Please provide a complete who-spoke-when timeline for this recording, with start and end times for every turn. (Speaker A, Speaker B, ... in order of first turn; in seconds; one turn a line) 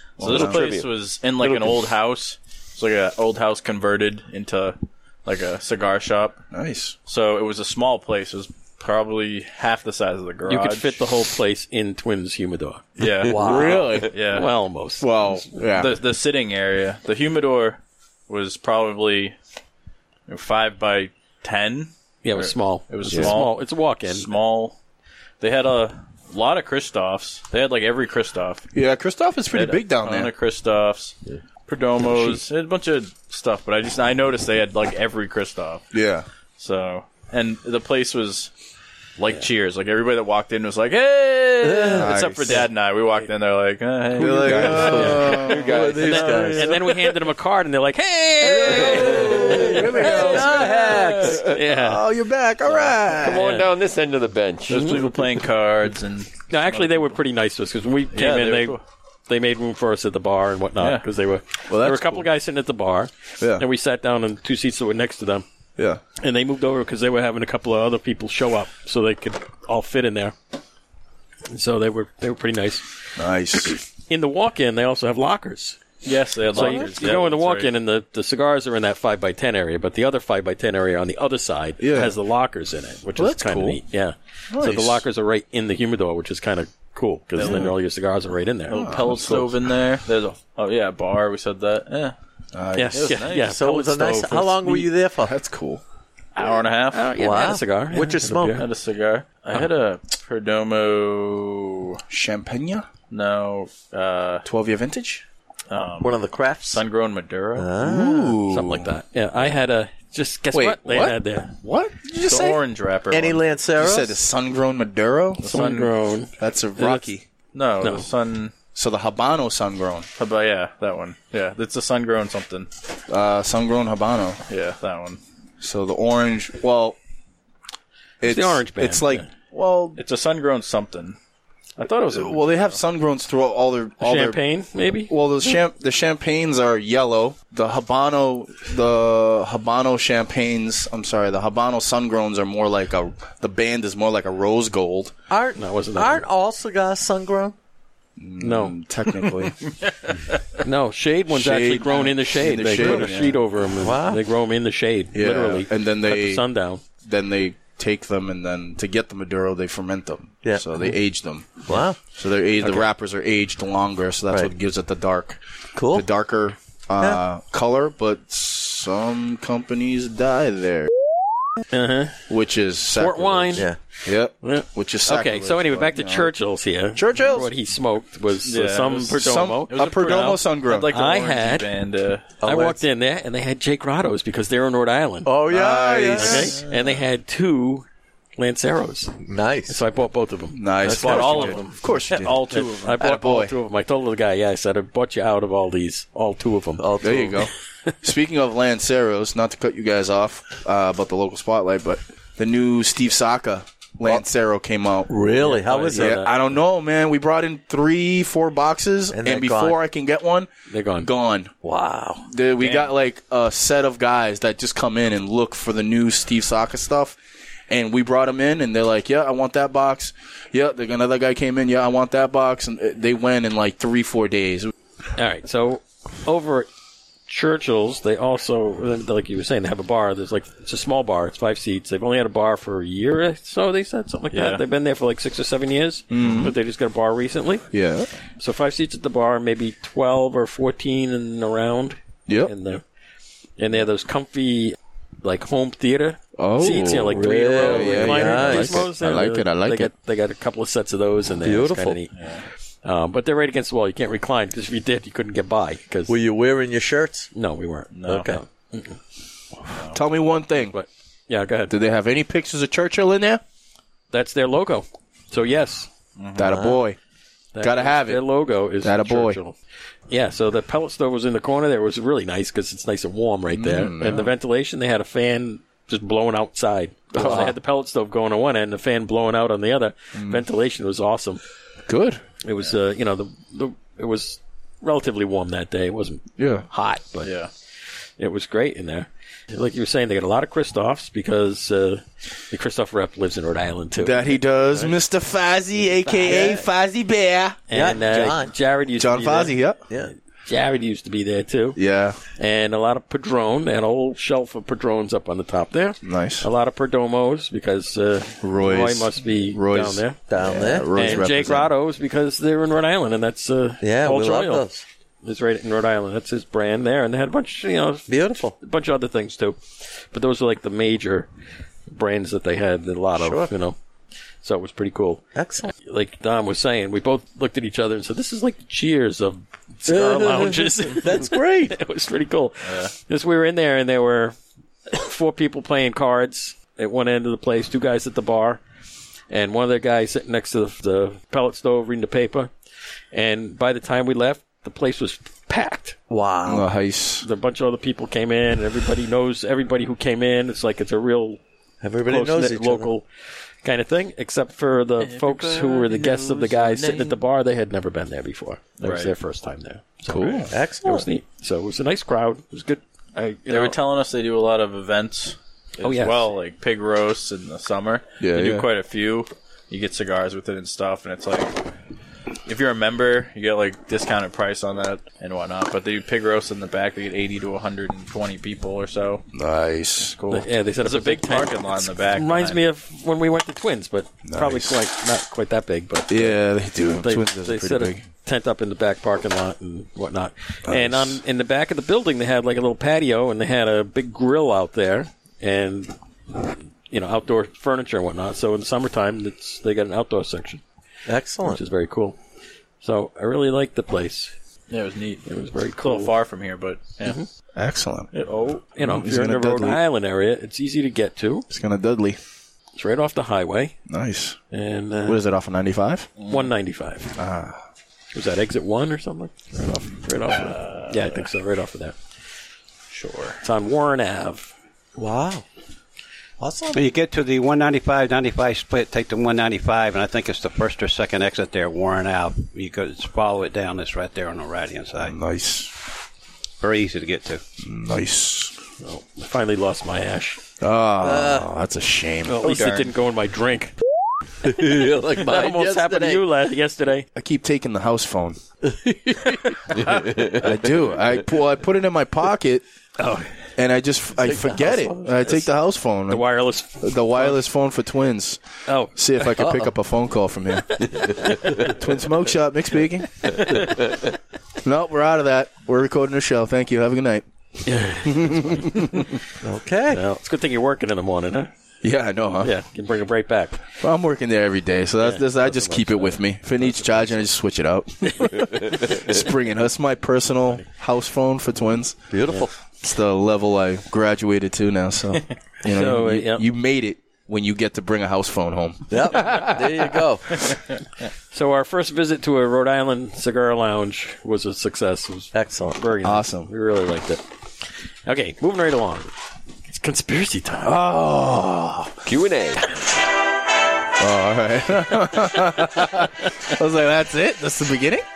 Speaker A: 0.2-0.7
Speaker B: 0.2-6.4
Speaker C: 0.2-0.9
Speaker A: 6.5-7.0
Speaker B: 7.1-11.1
Speaker D: 10.5-12.9
Speaker B: 13.0-13.5
Speaker A: 13.2-14.1
Speaker E: 13.2-13.9
Speaker B: 14.1-14.5
Speaker D: 14.2-15.5
Speaker A: 15.0-16.0
Speaker B: 15.8-19.4
Speaker B: 20.3-24.8
Speaker D: 22.2-24.3
Speaker C: 23.1-23.3
Speaker B: 25.4-28.6
Speaker A: 28.7-30.3
Speaker B: 29.5-31.2
Speaker B: 31.7-35.9
Speaker A: 35.9-36.3
Speaker B: 36.6-38.5
Speaker B: 39.2-45.1
Speaker E: 41.6-42.1
Speaker A: 41.9-42.7
Speaker A: 44.1-46.4
Speaker E: 44.2-46.8
Speaker C: 44.3-46.5
Speaker D: 45.0-45.4
Speaker D: 46.0-52.0
Speaker B: 46.0-46.5
Speaker A: 48.5-53.7
Speaker C: 48.8-49.9
Speaker E: 49.1-51.5
Speaker C: 50.6-51.4
Speaker C: 53.1-55.2
Speaker B: 54.7-57.2
Speaker D: 54.7-55.0
Speaker D: 56.5-65.5
Speaker B: 58.1-58.8
Speaker B: 60.8-61.1
Speaker A: 61.7-62.3
Speaker D: 66.2-70.3
Speaker D: 71.5-72.9
Speaker A: 73.2-73.8
Speaker D: 73.6-75.8
Speaker B: 76.0-77.7
Speaker D: 76.5-89.0
Speaker A: 81.8-82.2
Speaker A: 83.2-83.8
Speaker A: 84.5-85.0
Speaker B: 87.3-87.8
Speaker A: 87.4-87.7
Speaker B: 88.7-92.2
Speaker A: 88.7-89.6
Speaker A: 92.5-93.2
Speaker D: 92.8-94.9
Speaker B: 92.9-93.6
Speaker E: 93.4-95.4
Speaker A: 95.2-95.8
Speaker B: 96.3-97.1
Speaker D: 96.9-98.7
Speaker E: 97.2-98.6
Speaker B: 98.5-102.0
Speaker A: 102.1-102.9
Speaker B: 103.1-104.5
Speaker A: 104.5-105.2
Speaker B: 105.7-107.7
Speaker E: 106.0-106.8
Speaker E: 107.5-108.4
Speaker A: 107.8-108.9
Speaker D: 108.5-111.5
Speaker A: 110.5-112.7
Speaker B: 112.2-113.5
Speaker E: 113.1-114.2
Speaker A: 113.8-115.7
Speaker B: 115.4-115.9
Speaker D: 115.4-116.3
Speaker A: 116.4-117.3
Speaker B: 116.8-118.5
Speaker D: 117.8-118.1
Speaker A: 118.8-120.1
Speaker B: 120.2-122.7
Speaker A: 123.1-124.4
Speaker B: 124.5-125.2
Speaker A: 125.6-127.0
Speaker A: 128.2-130.0
Speaker D: 128.2-129.3
Speaker B: 130.0-131.2
Speaker B: 131.8-132.8
Speaker A: 132.1-134.4
Speaker D: 134.0-135.1
Speaker A: 135.1-145.1
Speaker E: 145.3-147.6
Speaker D: 145.6-146.2
Speaker A: 148.2-149.6
Speaker D: 148.4-148.8
Speaker D: 150.6-156.8
Speaker A: 151.3-153.4
Speaker E: 152.8-153.1
Speaker E: 153.8-154.2
Speaker A: 155.1-156.4
Speaker A: 157.0-165.4
Speaker E: 160.4-161.0
Speaker E: 161.7-162.0
Speaker D: 162.6-162.9
Speaker E: 165.8-166.1
Speaker A: 165.9-170.9
Speaker D: 171.7-172.2
Speaker A: 172.3-176.3
Speaker D: 172.9-173.7
Speaker D: 174.4-181.7
Speaker A: 176.9-177.5
Speaker B: 178.4-182.3
Speaker A: 179.2-180.9
Speaker E: 182.4-182.8
Speaker D: 182.4-185.3
Speaker E: 185.2-186.6
Speaker A: 185.5-186.6
Speaker D: 186.2-189.2
Speaker E: 189.2-189.8
Speaker D: 189.7-191.6
Speaker A: 190.5-193.5
Speaker B: 190.8-193.0
Speaker D: 192.5-196.9
Speaker E: 196.8-197.5
Speaker A: 197.0-205.1
Speaker E: 205.1-206.3
Speaker D: 205.4-206.3
Speaker A: 205.9-210.5
Speaker E: 209.1-209.8
Speaker D: 210.7-211.1
Speaker A: 211.0-211.5
Speaker E: 211.6-212.3
Speaker A: 212.3-217.2
Speaker B: 212.6-212.9
Speaker A: 217.7-224.7
Speaker D: 225.2-226.7
Speaker D: 227.3-237.7
Speaker B: 234.3-234.6
Speaker A: 236.1-236.5
Speaker A: 237.7-238.1
Speaker D: 238.4-242.8
Speaker A: 242.3-242.5
Speaker D: 243.6-252.1
Speaker A: 246.4-249.9
Speaker E: 247.0-248.9
Speaker E: 251.4-252.0
Speaker B: 252.1-252.4
Speaker D: 252.8-256.1
Speaker E: 256.1-257.3
Speaker D: 257.4-259.0
Speaker B: 257.9-258.4
Speaker E: 258.1-258.4
Speaker B: 259.7-260.0
Speaker A: 259.9-260.7
Speaker D: 260.6-261.7
Speaker A: 261.7-263.4
Speaker D: 264.1-265.9
Speaker B: 266.2-266.6
Speaker A: 266.4-267.0
Speaker E: 266.4-266.8
Speaker D: 267.6-269.6
Speaker A: 267.6-268.2
Speaker A: 268.8-269.4
Speaker D: 270.1-281.4
Speaker A: 273.6-274.3
Speaker A: 277.1-277.5
Speaker E: 277.2-277.5
Speaker A: 280.2-280.4
Speaker A: 281.9-282.2
Speaker D: 282.4-287.3
Speaker A: 286.4-286.7
Speaker B: 287.2-287.5
Speaker D: 288.2-295.0
Speaker A: 294.0-297.6
Speaker E: 296.1-296.7
Speaker D: 296.2-296.6
Speaker D: 297.7-299.6
Speaker E: 297.7-298.5
Speaker A: 299.0-299.8
Speaker E: 299.9-300.1
Speaker D: 300.4-301.8
Speaker A: 301.8-302.2
Speaker D: 302.4-310.2
Speaker A: 306.0-306.5
Speaker A: 308.4-311.7
Speaker E: 310.3-311.6
Speaker D: 310.9-314.7
Speaker E: 313.8-314.9
Speaker D: 315.2-321.3
Speaker E: 318.1-318.6
Speaker D: 321.9-323.8
Speaker E: 323.1-323.5
Speaker D: 324.4-325.2
Speaker E: 325.4-325.7
Speaker D: 325.8-334.4
Speaker E: 329.9-331.8
Speaker B: 332.6-332.9
Speaker D: 334.9-338.6
Speaker D: 339.3-342.5
Speaker D: 343.1-346.0
Speaker E: 346.1-346.7
Speaker A: 346.5-347.3
Speaker D: 347.2-351.4
Speaker E: 351.8-352.9
Speaker D: 352.1-353.1
Speaker D: 353.6-363.8
Speaker B: 355.1-355.7
Speaker C: 355.7-357.1
Speaker B: 358.8-359.1
Speaker A: 360.1-360.5
Speaker E: 360.5-361.1
Speaker B: 363.5-371.7
Speaker D: 365.8-366.3
Speaker A: 368.2-368.7
Speaker B: 372.5-379.2
Speaker A: 379.3-380.2
Speaker B: 380.1-382.7
Speaker D: 380.3-386.4
Speaker A: 384.3-384.8
Speaker A: 386.1-388.0
Speaker D: 387.0-395.9
Speaker A: 390.7-391.2
Speaker D: 396.9-400.6
Speaker E: 401.1-401.6
Speaker D: 401.4-402.2
Speaker D: 402.8-404.3
Speaker B: 404.7-405.2
Speaker D: 405.2-406.1
Speaker B: 405.8-407.2
Speaker A: 407.6-408.1
Speaker B: 408.1-408.7
Speaker D: 408.8-411.5
Speaker A: 408.8-409.8
Speaker A: 411.5-412.2
Speaker D: 412.8-413.7
Speaker A: 413.9-414.4
Speaker D: 414.5-415.2
Speaker A: 415.1-416.1
Speaker B: 416.2-416.5
Speaker D: 416.3-417.1
Speaker A: 417.2-417.6
Speaker D: 418.1-422.0
Speaker B: 420.2-421.3
Speaker B: 422.9-423.4
Speaker D: 423.4-424.5
Speaker E: 425.0-425.4
Speaker E: 426.4-426.9
Speaker F: 426.7-435.2
Speaker A: 435.1-435.7
Speaker F: 436.6-437.4
Speaker A: 437.6-438.5
Speaker D: 438.8-440.4
Speaker A: 440.6-442.5
Speaker E: 441.0-441.5
Speaker D: 442.3-443.7
Speaker B: 442.4-442.9
Speaker E: 444.4-446.2
Speaker D: 445.1-447.1
Speaker A: 447.1-448.4
Speaker E: 448.6-449.4
Speaker A: 449.9-452.6
Speaker D: 453.0-453.3
Speaker A: 453.6-456.3
Speaker E: 454.2-455.4
Speaker D: 456.1-457.4
Speaker A: 456.8-458.4
Speaker D: 458.7-459.6
Speaker A: 458.9-463.5
Speaker D: 460.7-461.7
Speaker D: 463.2-463.7
Speaker A: 464.6-467.2
Speaker D: 467.6-469.1
Speaker A: 468.1-469.0
Speaker E: 469.4-470.0
Speaker D: 469.9-471.5
Speaker A: 471.8-472.5
Speaker D: 472.4-473.6
Speaker A: 473.8-482.0
Speaker D: 475.0-477.3
Speaker D: 478.1-478.4
Speaker E: 482.1-482.5
Speaker A: 482.8-488.9
Speaker D: 485.6-486.4
Speaker E: 488.9-490.4
Speaker D: 491.3-497.2
Speaker E: 495.3-495.8
Speaker A: 496.0-496.5
Speaker D: 498.1-499.1
Speaker D: 499.7-500.7
Speaker A: 500.6-502.0
Speaker C: 502.1-502.6
Speaker A: 504.0-508.0